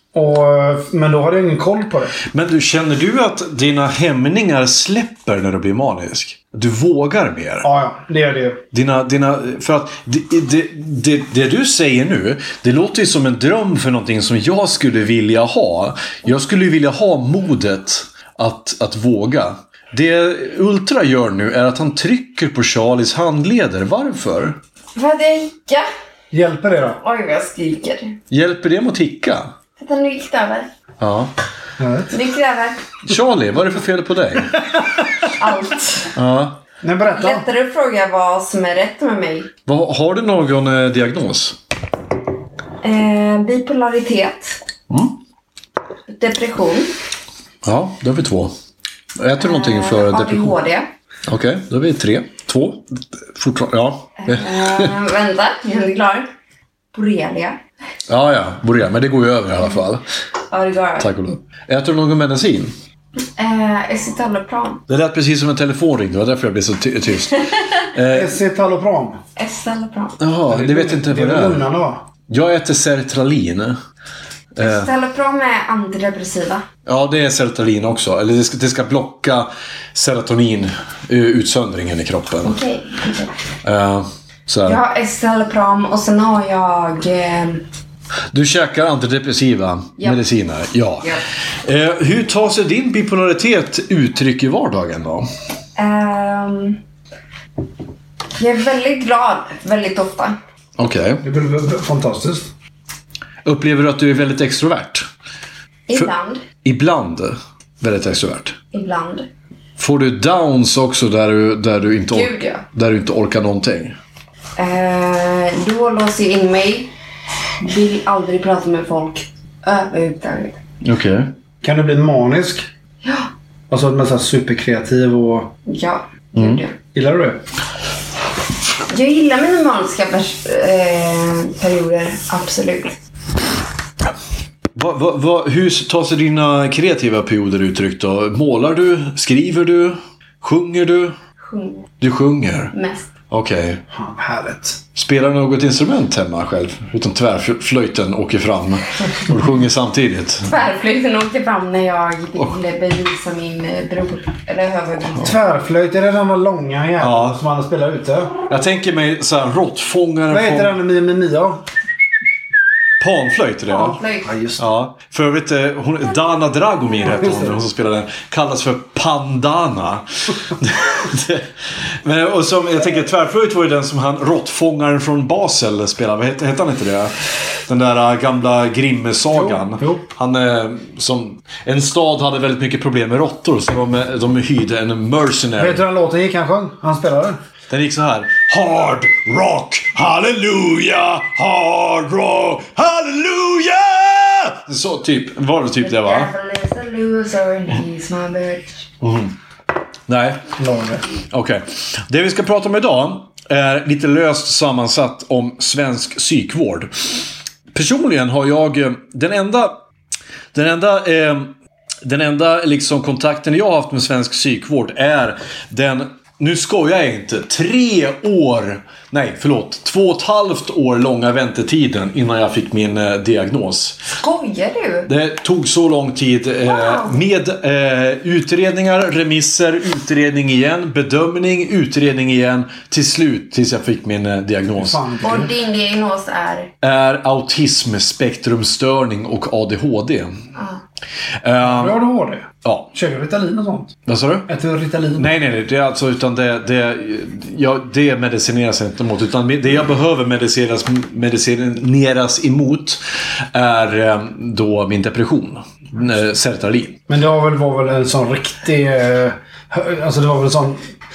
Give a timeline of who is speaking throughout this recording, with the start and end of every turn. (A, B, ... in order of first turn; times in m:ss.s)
0:00.1-0:02.2 A
0:02.3-0:07.7 B
0:07.6-0:08.6 A
0:08.7-0:24.6 B
0:25.0-0:25.9 C
0:26.3-0:27.0 A
0:27.0-0:28.2 C
0:28.3-0:29.5 B
0:29.8-0:30.7 C
0:31.0-0:31.3 B
0:31.8-0:32.1 A
0:32.1-0:32.8 C
0:33.0-0:34.6 B
0:35.4-0:36.1 C
0:36.2-0:36.6 B
0:36.8-0:37.5 A
0:37.1-0:39.5 C
0:39.6-0:41.6 B
0:42.8-0:44.6 C
0:44.9-0:45.1 B
0:46.1-0:46.9 C
0:47.6-0:48.5 B
0:49.2-0:50.6 B
0:49.4-0:50.9 C
0:51.3-0:54.9 B
0:54.2-0:56.3 C
0:56.9-0:57.6 C
0:58.1-1:00.0 B
1:00.5-1:01.1 C
1:01.0-1:02.7 B
1:03.4-1:04.8 C
1:04.9-1:08.4 B
1:08.1-1:09.2 A
1:09.4-1:10.2 C
1:10.2-1:11.6 B
1:10.5-1:12.0 A
1:12.3-1:13.8 B
1:14.6-1:14.9 B
1:14.6-1:16.6 C
1:16.8-1:22.6 B
1:22.4-1:23.3 C
1:23.6-1:24.8 B
1:24.6-1:27.6 C
1:28.3-1:31.1 B
1:31.6-1:35.3 B
1:35.8-1:36.8 C
1:38.4-1:40.4 C
1:40.8-1:41.2 B
1:41.2-1:42.5 A
1:43.4-1:45.0 B
1:45.9-1:46.4 C
1:46.6-1:48.6 B
1:48.7-1:49.3 C
1:49.8-1:53.9 B
1:52.1-1:52.6 C
1:54.6-1:56.9 C
1:57.6-2:00.6 C
2:00.8-2:01.3 B
2:01.6-2:02.7 A
2:03.0-2:03.3 C
2:03.7-2:05.5 A
2:05.7-2:06.8 C
2:06.4-2:06.6 B
2:06.9-2:07.4 A
2:08.9-2:13.0 C
2:14.7-2:21.2 B
2:21.4-2:21.9 C
2:22.0-2:22.7 B
2:22.7-2:23.1 C
2:23.3-2:23.8 B
2:23.9-2:24.8 A
2:24.9-2:30.5 B
2:30.5-2:35.3 C
2:35.2-2:38.3 A
2:37.0-2:37.4 B
2:38.5-2:40.8 B
2:40.3-2:41.6 A
2:43.0-2:44.0 B
2:43.7-2:44.3 C
2:43.8-2:44.6 A
2:44.6-2:57.1 B
2:47.2-2:47.5 A
2:57.7-3:05.8 B
2:59.3-3:00.0 A
3:05.6-3:07.4 A
3:07.7-3:16.3 B
3:15.8-3:18.8 C
3:19.0-3:19.3 B
3:20.1-3:20.4 B
3:20.6-3:21.0 A
3:21.3-3:26.9 B
3:27.7-3:29.8 B
3:30.5-3:31.5 B
3:32.0-3:44.0 B
3:44.2-3:45.1 C
3:45.1-3:55.0 B
3:46.6-3:47.2 C
3:54.8-3:55.5 A
3:55.2-3:56.7 C
3:56.8-4:00.3 B
4:00.6-4:00.8 C
4:01.4-4:02.0 B
4:01.6-4:03.9 A
4:02.6-4:02.9 B
4:04.1-4:04.5 B
4:04.5-4:05.3 A
4:05.2-4:13.0 B
4:13.5-4:17.0 B
4:17.1-4:20.8 A